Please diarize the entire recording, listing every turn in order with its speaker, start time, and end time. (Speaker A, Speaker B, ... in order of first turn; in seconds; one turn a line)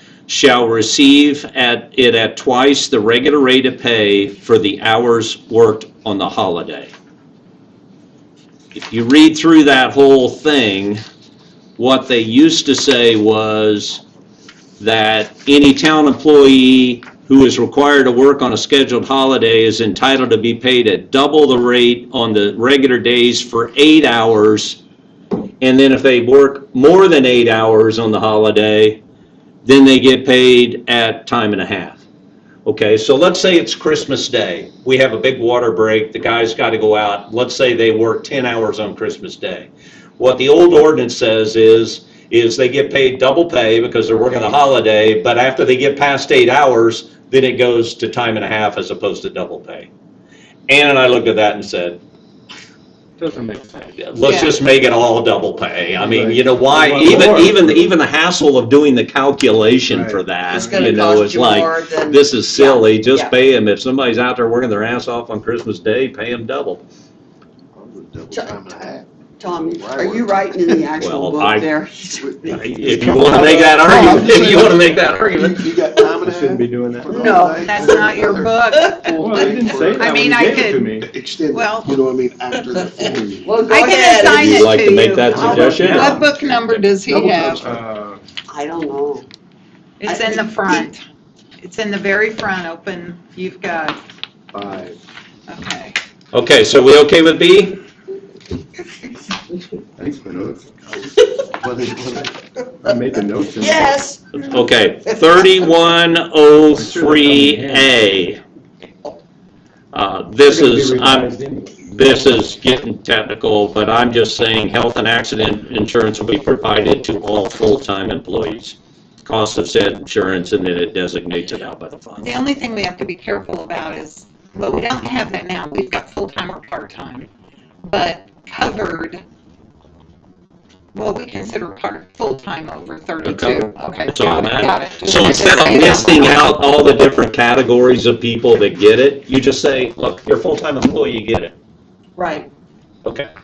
Speaker A: 0.3-6.9
Speaker A: 8.7-11.0
Speaker A: 11.8-14.0
Speaker A: 14.8-24.8
Speaker A: 25.6-29.0
Speaker A: 29.6-32.0
Speaker A: 32.6-49.9
Speaker A: 50.7-52.0
Speaker B: 53.2-53.9
Speaker A: 54.0-66.8
Speaker C: 54.2-54.5
Speaker B: 56.0-57.9
Speaker B: 59.9-60.9
Speaker D: 60.5-63.3
Speaker E: 67.7-69.0
Speaker D: 68.3-68.8
Speaker D: 69.4-72.9
Speaker E: 69.8-70.8
Speaker A: 71.0-71.7
Speaker E: 72.2-83.6
Speaker A: 72.5-75.6
Speaker D: 73.6-74.1
Speaker B: 76.2-77.2
Speaker D: 77.1-78.8
Speaker C: 77.6-80.9
Speaker B: 79.1-81.1
Speaker C: 81.5-82.0
Speaker D: 82.7-86.3
Speaker C: 83.7-87.6
Speaker A: 84.3-86.3
Speaker B: 85.4-86.2
Speaker B: 87.1-88.2
Speaker E: 87.5-87.8
Speaker D: 88.5-89.2
Speaker C: 90.0-91.0
Speaker D: 90.0-90.9
Speaker C: 91.6-94.0
Speaker B: 94.5-95.0
Speaker C: 95.5-96.0
Speaker A: 96.3-97.8
Speaker B: 100.0-100.6
Speaker E: 101.6-102.3
Speaker B: 102.8-103.9
Speaker D: 103.6-105.7
Speaker A: 104.3-108.4
Speaker B: 106.7-107.9
Speaker A: 109.9-122.3
Speaker B: 110.5-111.7
Speaker C: 122.2-127.3
Speaker C: 127.8-129.2
Speaker C: 130.9-136.4
Speaker A: 133.2-141.5
Speaker D: 142.2-142.5
Speaker A: 143.0-143.3